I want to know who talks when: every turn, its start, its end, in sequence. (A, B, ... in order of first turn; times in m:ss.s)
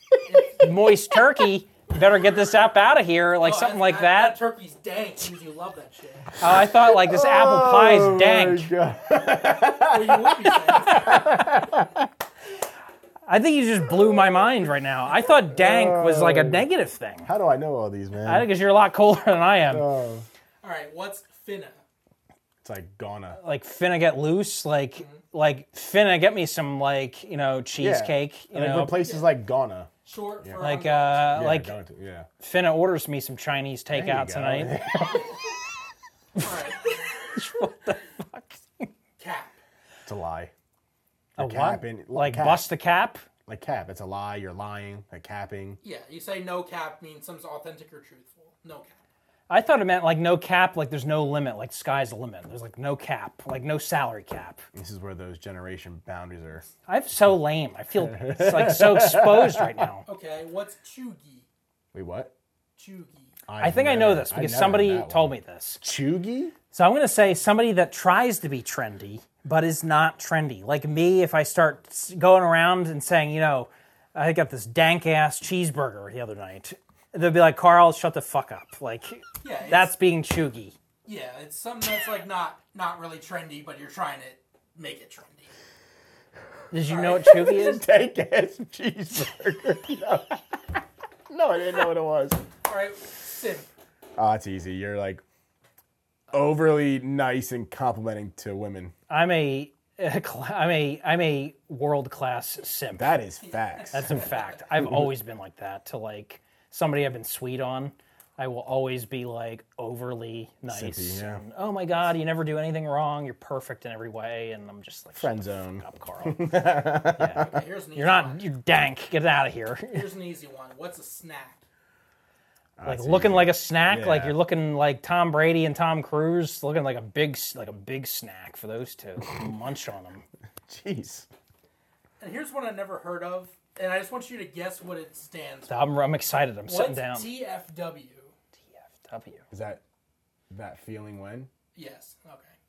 0:00.3-0:00.6 A
0:00.5-0:04.4 B
0:03.4-0:06.4 A
0:06.4-0:08.7 B
0:06.4-0:12.1 C
0:09.6-0:11.2 A
0:13.3-0:17.3 B
0:15.5-0:16.7 C
0:17.2-0:18.5 C
0:18.2-0:19.9 B
0:19.7-0:20.3 C
0:20.6-0:21.8 A
0:22.6-0:23.4 C
0:23.4-0:29.0 B
0:27.8-0:30.6 C
0:30.0-0:31.4 A
0:30.6-0:31.7 B
0:31.3-0:32.3 C
0:32.4-0:34.8 B
0:33.9-0:35.4 C
0:36.4-0:38.9 B
0:36.4-0:37.1 A
0:39.2-0:39.5 A
0:40.1-0:40.5 C
0:41.4-0:42.7 C
0:41.4-0:43.2 B
0:43.5-0:45.8 C
0:45.8-0:48.9 A
0:49.5-0:54.6 B
0:54.8-0:56.7 C
0:56.9-1:00.0 B
0:58.0-0:59.9 C
1:00.1-1:01.5 A
1:01.9-1:02.3 C
1:02.8-1:03.4 A
1:03.5-1:06.5 C
1:03.6-1:05.8 B
1:06.7-1:20.8 B
1:19.4-1:19.9 A
1:21.0-1:25.5 A
1:26.7-1:27.8 B
1:26.9-1:27.5 A
1:27.1-1:30.4 C
1:31.3-1:32.4 C
1:32.7-1:33.7 A
1:34.2-1:35.2 C
1:36.3-1:38.9 C
1:39.1-1:43.2 B
1:43.0-1:44.2 C
1:43.8-1:44.5 A
1:43.9-1:56.5 B
1:50.7-1:51.4 C
1:55.2-1:57.6 C
1:57.2-2:00.0 B
1:57.4-1:58.4 A
1:59.9-2:01.6 A
2:02.8-2:04.4 C
2:02.9-2:10.2 B
2:10.7-2:11.3 C
2:12.2-2:15.9 A
2:15.7-2:17.3 B
2:16.7-2:18.3 A
2:18.8-2:19.4 B
2:19.5-2:19.8 C
2:20.5-2:21.5 C
2:21.8-2:22.5 A